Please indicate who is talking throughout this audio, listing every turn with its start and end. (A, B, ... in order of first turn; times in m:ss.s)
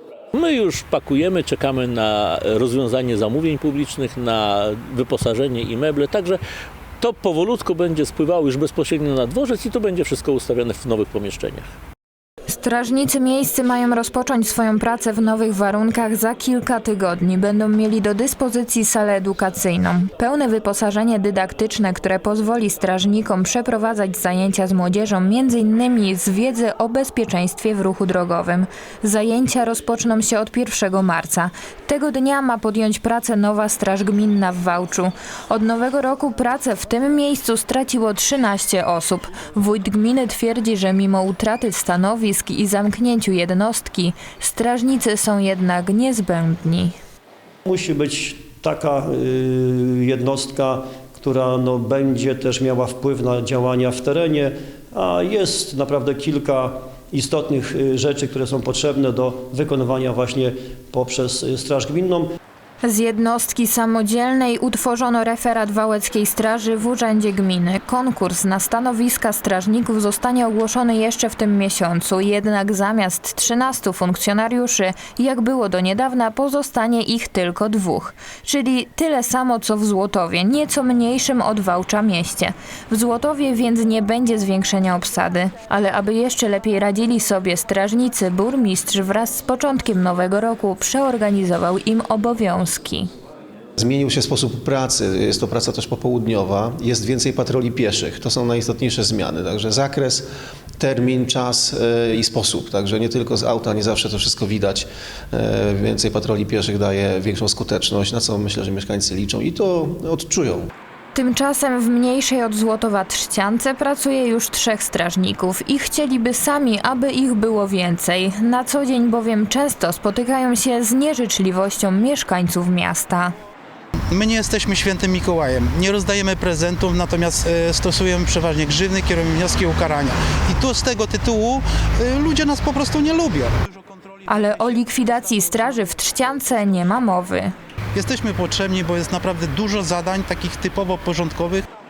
0:00.3-0:06.4 A
0:07.0-0:11.7 A
0:12.5-0:47.0 B
0:47.7-1:02.3 C
1:02.8-1:33.1 B
1:33.8-1:40.3 D
1:40.8-1:50.7 D
1:51.2-2:03.4 B
2:04.1-2:14.3 E
2:14.3-2:17.5 B
2:18.0-2:21.7 E